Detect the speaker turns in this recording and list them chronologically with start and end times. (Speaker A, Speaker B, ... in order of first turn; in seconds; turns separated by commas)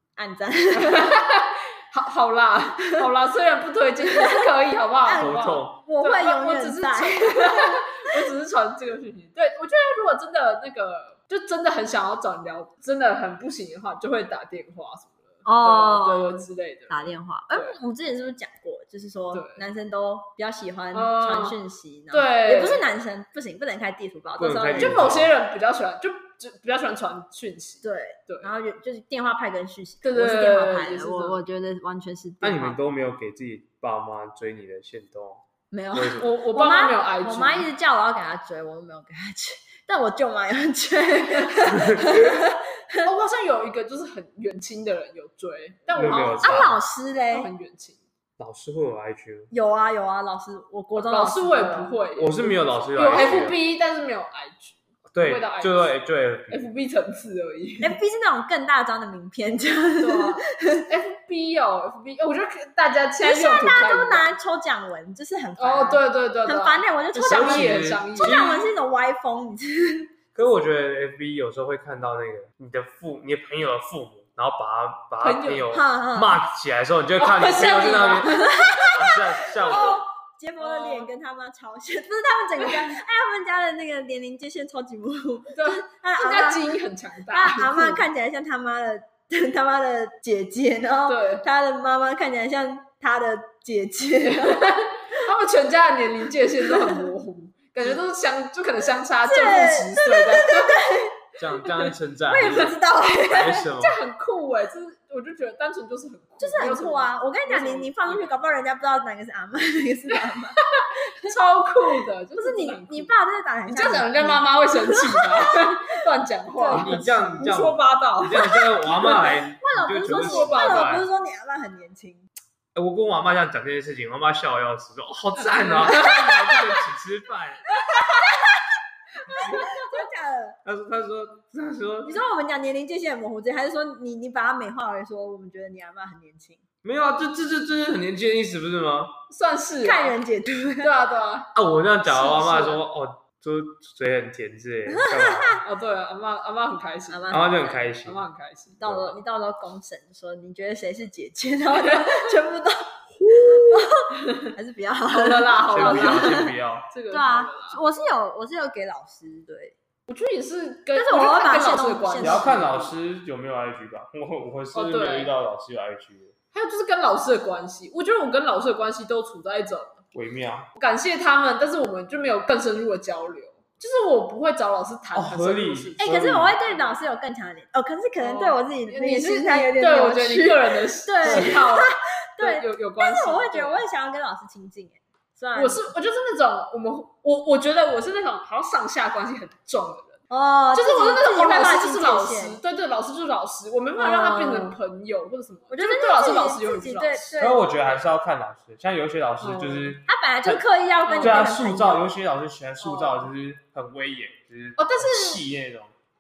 Speaker A: 0.2-1.2, Speaker B: 0.8-17.8, Speaker A: 4.0-4.5, Speaker A: 5.0-8.2, Speaker C: 5.2-5.8, Speaker A: 15.4-25.1, Speaker B: 19.3-19.6, Speaker B: 20.9-21.6, Speaker B: 22.1-22.9, Speaker C: 24.4-25.3, Speaker B: 24.7-28.5, Speaker A: 27.8-32.8, Speaker B: 30.0-31.4, Speaker C: 32.4-35.4, Speaker A: 35.7-43.1, Speaker C: 35.9-36.3, Speaker B: 36.0-37.7, Speaker C: 41.7-42.1, Speaker B: 43.0-46.8, Speaker C: 46.0-46.8, Speaker A: 46.4-47.5, Speaker B: 47.3-48.0, Speaker C: 48.4-49.5, Speaker A: 49.5-52.0, Speaker B: 51.0-55.9, Speaker C: 52.2-53.6, Speaker C: 55.1-56.6, Speaker B: 56.5-58.0, Speaker A: 57.8-60.9, Speaker B: 60.0-64.3, Speaker A: 63.2-70.1, Speaker B: 65.6-68.6, Speaker C: 67.2-68.6, Speaker C: 70.3-80.0, Speaker B: 75.2-75.7, Speaker A: 75.7-76.4, Speaker B: 77.2-78.9, Speaker A: 78.3-86.7, Speaker B: 79.7-80.0, Speaker B: 80.6-81.1, Speaker B: 85.5-88.1, Speaker A: 87.3-94.8, Speaker B: 91.1-91.5, Speaker B: 94.2-100.8, Speaker A: 96.7-97.0, Speaker A: 99.2-101.2, Speaker C: 101.4-102.8, Speaker B: 101.7-101.9, Speaker A: 102.3-103.7, Speaker C: 103.3-104.0, Speaker B: 103.8-108.3, Speaker A: 106.4-110.6, Speaker B: 110.2-113.2, Speaker A: 112.4-115.8, Speaker B: 113.7-119.3, Speaker A: 116.6-117.5, Speaker C: 116.7-121.1, Speaker A: 118.4-122.3, Speaker B: 120.0-120.9, Speaker C: 122.8-127.8, Speaker B: 125.4-126.7, Speaker A: 125.9-126.4, Speaker A: 127.8-128.7, Speaker B: 127.9-128.3, Speaker B: 129.3-129.9, Speaker A: 129.3-130.6, Speaker C: 130.7-132.2, Speaker A: 132.1-136.6, Speaker C: 136.8-139.1, Speaker B: 139.3-140.2, Speaker A: 139.8-140.9, Speaker B: 140.8-141.5, Speaker C: 141.5-145.6, Speaker B: 142.2-142.7, Speaker A: 144.9-145.6, Speaker B: 145.6-147.4, Speaker A: 147.1-147.6, Speaker C: 147.3-148.2, Speaker B: 148.1-148.8, Speaker A: 148.8-156.6, Speaker C: 148.8-149.1, Speaker B: 151.7-152.3, Speaker B: 153.2-154.5, Speaker B: 155.1-157.8, Speaker C: 155.7-156.9, Speaker A: 157.1-159.8, Speaker B: 160.1-162.9, Speaker A: 160.9-162.7, Speaker C: 162.2-166.3, Speaker B: 164.7-165.3, Speaker B: 166.5-170.0, Speaker C: 170.1-170.7, Speaker B: 170.8-177.0, Speaker C: 175.2-176.6, Speaker A: 176.0-185.9, Speaker B: 178.2-183.8, Speaker C: 181.2-181.6, Speaker B: 185.6-190.2, Speaker A: 190.3-192.6, Speaker B: 190.7-197.4, Speaker A: 194.0-194.8, Speaker A: 195.7-197.6, Speaker C: 197.4-200.6, Speaker B: 199.4-200.0, Speaker A: 200.1-202.1, Speaker B: 201.0-201.4, Speaker C: 201.2-205.9, Speaker B: 202.8-203.3, Speaker B: 204.8-205.4